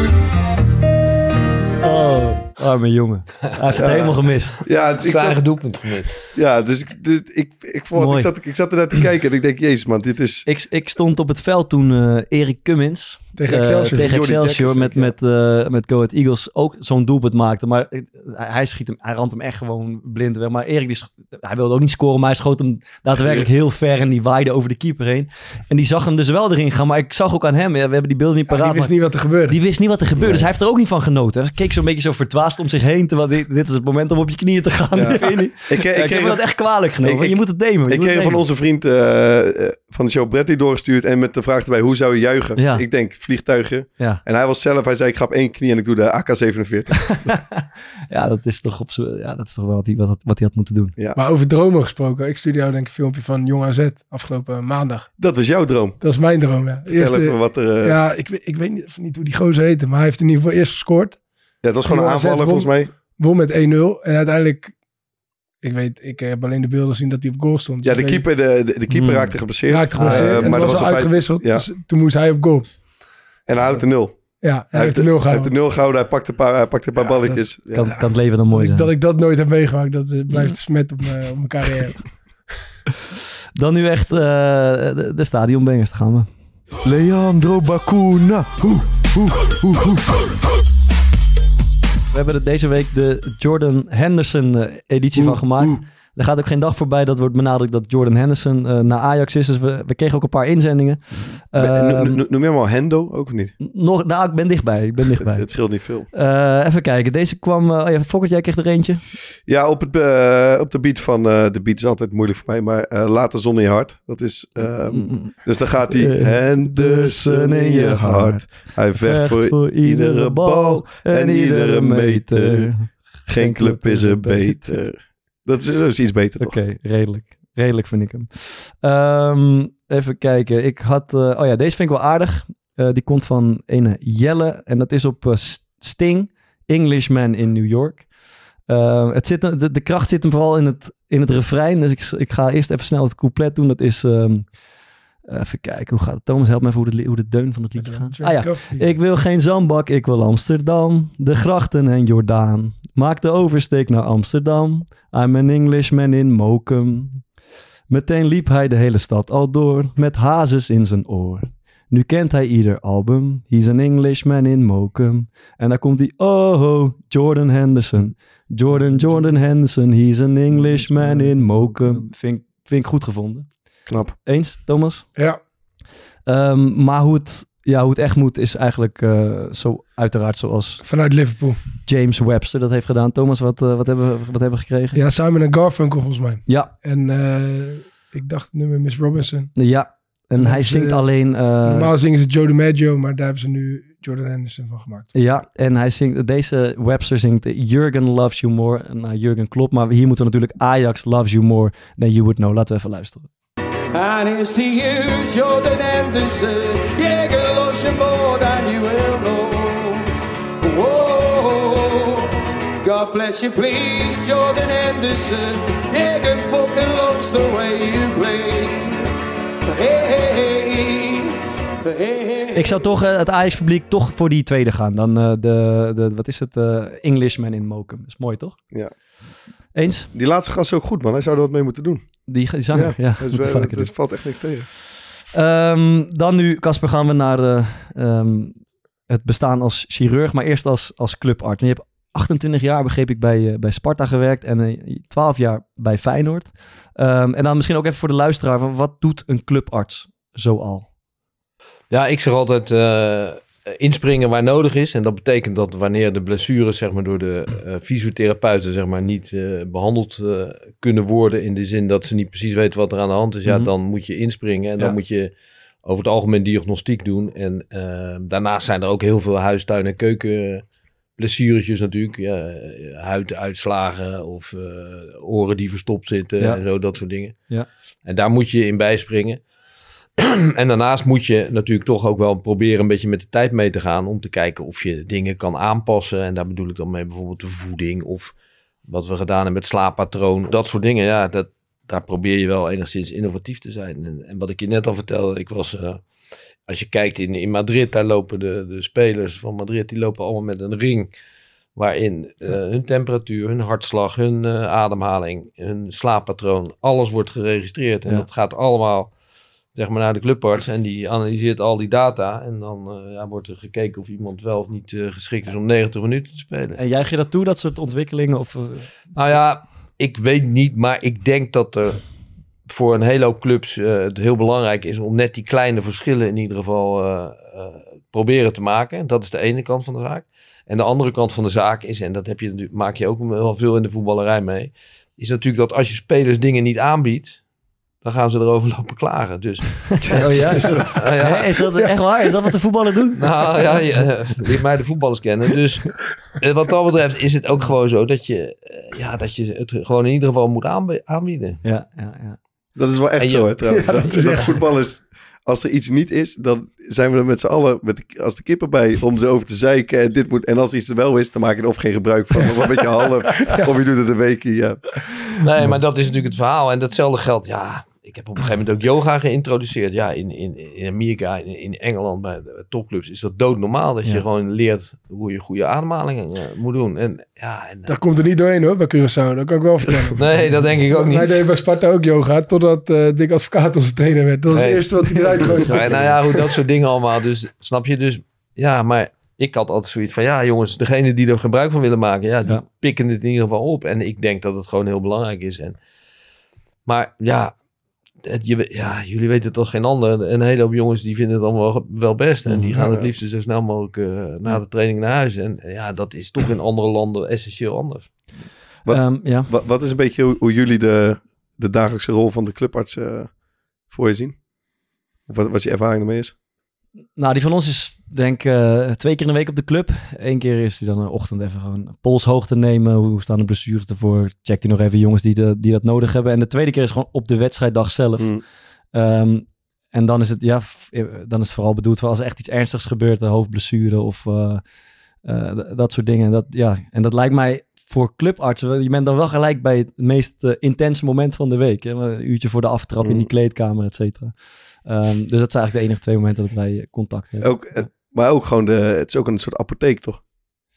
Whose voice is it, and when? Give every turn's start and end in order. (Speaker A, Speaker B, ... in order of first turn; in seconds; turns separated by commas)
Speaker A: 1.8-4.5, Speaker B: 3.7-5.7, Speaker C: 5.0-6.2, Speaker B: 6.2-10.5, Speaker A: 7.9-8.3, Speaker A: 10.4-38.4, Speaker D: 13.4-14.1, Speaker B: 13.9-15.1, Speaker B: 23.2-23.5, Speaker D: 28.5-29.6, Speaker B: 30.1-30.5, Speaker B: 34.9-47.4, Speaker A: 42.5-42.8, Speaker A: 47.1-47.6, Speaker A: 48.1-50.9, Speaker D: 51.1-55.1, Speaker B: 55.2-56.0, Speaker D: 56.0-61.2, Speaker B: 56.9-58.0, Speaker B: 61.6-62.9, Speaker D: 61.8-64.8, Speaker D: 65.6-68.2, Speaker B: 67.8-71.7, Speaker A: 68.9-70.9, Speaker D: 69.7-72.9, Speaker B: 73.5-78.0, Speaker D: 74.4-75.5, Speaker A: 77.7-78.9, Speaker D: 78.0-82.3, Speaker A: 80.3-80.5, Speaker A: 83.5-86.3, Speaker B: 86.8-90.3, Speaker A: 92.1-102.2, Speaker B: 95.1-95.8, Speaker B: 101.5-103.5, Speaker A: 103.6-105.6, Speaker B: 105.1-106.1, Speaker A: 106.1-109.0, Speaker B: 109.4-126.6, Speaker A: 114.6-124.8, Speaker A: 126.4-138.1, Speaker A: 138.7-144.6, Speaker A: 145.3-157.2, Speaker D: 147.8-148.9, Speaker A: 157.9-175.1, Speaker B: 168.7-169.2, Speaker B: 170.5-172.1, Speaker B: 173.9-174.1, Speaker D: 175.2-175.4, Speaker A: 176.2-180.8, Speaker D: 180.8-181.6, Speaker A: 181.8-185.0, Speaker D: 184.9-189.6, Speaker A: 186.4-186.7, Speaker A: 189.5-191.9, Speaker D: 190.4-195.1, Speaker A: 195.1-203.3, Speaker E: 203.9-210.1, Speaker E: 210.6-212.3, Speaker E: 212.8-219.1, Speaker E: 219.7-222.8, Speaker A: 222.5-228.6, Speaker A: 229.7-230.1, Speaker B: 230.1-234.7, Speaker A: 232.3-233.9, Speaker A: 235.3-250.9, Speaker C: 251.9-265.3, Speaker C: 265.8-270.6, Speaker C: 271.2-277.4, Speaker C: 278.0-279.4, Speaker C: 280.2-288.3, Speaker C: 288.9-296.0, Speaker C: 296.7-301.1, Speaker C: 301.7-309.1, Speaker C: 309.7-316.8, Speaker A: 316.8-318.9, Speaker C: 319.1-322.1, Speaker C: 322.6-337.4, Speaker C: 338.0-341.8, Speaker A: 340.1-343.5, Speaker B: 340.1-341.0, Speaker C: 343.2-351.6, Speaker A: 351.6-352.4, Speaker B: 352.8-365.1, Speaker C: 353.2-353.5, Speaker D: 353.8-354.5, Speaker C: 365.4-378.0, Speaker D: 377.9-380.2, Speaker C: 380.2-381.4, Speaker D: 380.9-386.1, Speaker C: 384.5-395.8, Speaker A: 385.1-386.2, Speaker C: 396.9-397.6, Speaker C: 398.2-408.1, Speaker A: 402.5-402.7, Speaker B: 402.7-403.1, Speaker B: 408.8-413.3, Speaker A: 408.9-409.5, Speaker B: 413.9-414.4, Speaker B: 415.3-416.3, Speaker A: 417.1-434.6, Speaker B: 428.2-428.4, Speaker A: 435.2-447.9, Speaker B: 443.0-443.3, Speaker B: 447.4-450.2